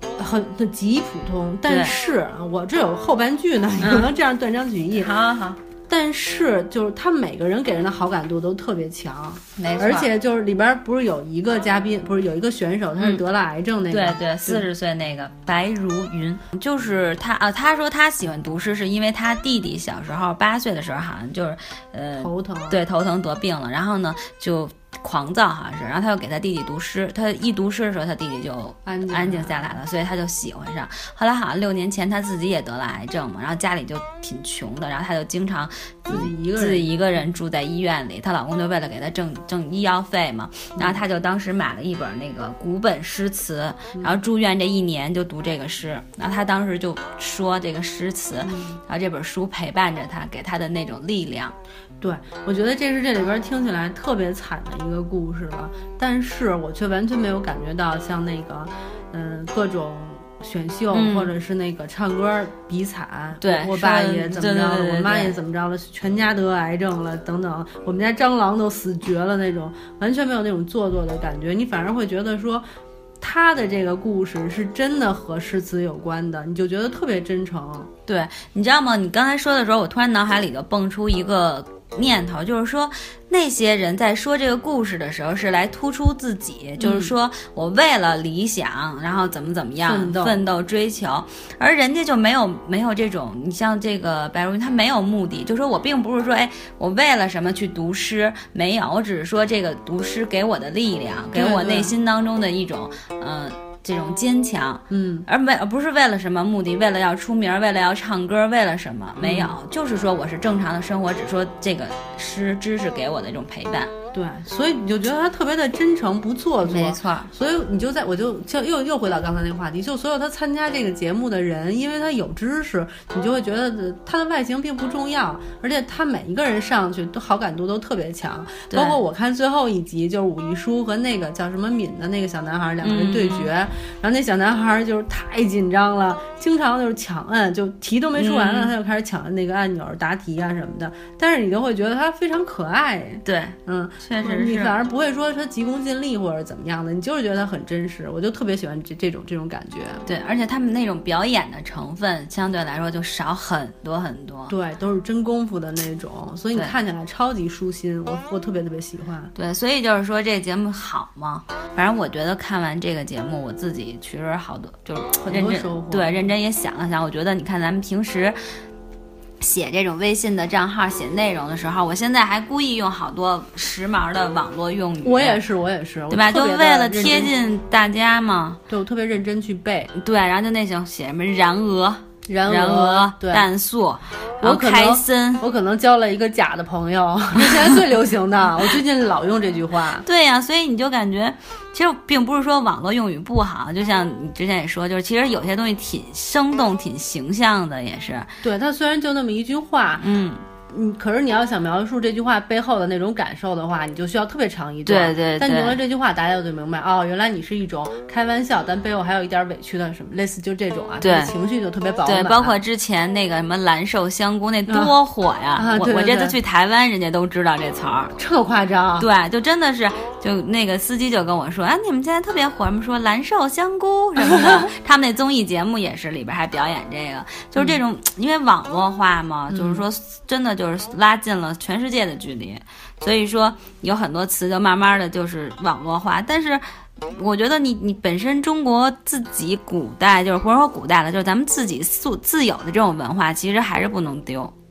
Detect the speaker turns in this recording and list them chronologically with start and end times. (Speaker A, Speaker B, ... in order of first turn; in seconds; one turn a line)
Speaker A: 0.2-5.1
Speaker B: 1.7-1.9
Speaker B: 3.8-4.1
Speaker B: 5.0-5.6
Speaker A: 5.9-14.7
Speaker B: 9.6-10.1
Speaker B: 13.9-51.5
Speaker A: 22.2-22.8
Speaker A: 28.9-29.8
Speaker A: 36.1-37.0
Speaker A: 40.8-41.0
Speaker A: 48.4-48.8
Speaker A: 52.0-72.7
Speaker B: 60.9-61.3
Speaker B: 63.4-65.3
Speaker A: 73.2-77.9
Speaker B: 78.1-113.9
Speaker A: 86.8-87.1
Speaker A: 89.8-90.4
Speaker A: 101.3-101.9
Speaker A: 104.9-105.2
Speaker A: 109.2-109.5
Speaker A: 114.1-150.0
Speaker B: 116.6-117.3
Speaker B: 128.7-129.0
Speaker B: 132.8-133.5
Speaker B: 138.2-138.7
Speaker B: 143.2-144.7
Speaker B: 150.0-154.5
Speaker A: 154.5-159.3
Speaker B: 159.3-168.4
Speaker A: 165.2-166.3
Speaker B: 169.4-175.4
Speaker A: 175.0-177.3
Speaker B: 176.1-178.6
Speaker A: 178.7-179.9
Speaker B: 179.9-185.4
Speaker A: 182.3-183.4
Speaker A: 184.4-190.0
Speaker B: 190.0-198.3
Speaker A: 198.4-200.1
Speaker B: 200.0-200.4
Speaker A: 200.7-212.5
Speaker B: 204.8-205.8
Speaker B: 211.0-211.3
Speaker B: 212.0-218.1
Speaker A: 214.7-214.9
Speaker A: 215.5-216.4
Speaker A: 218.2-219.1
Speaker B: 219.0-244.5
Speaker A: 224.2-224.6
Speaker A: 229.5-229.8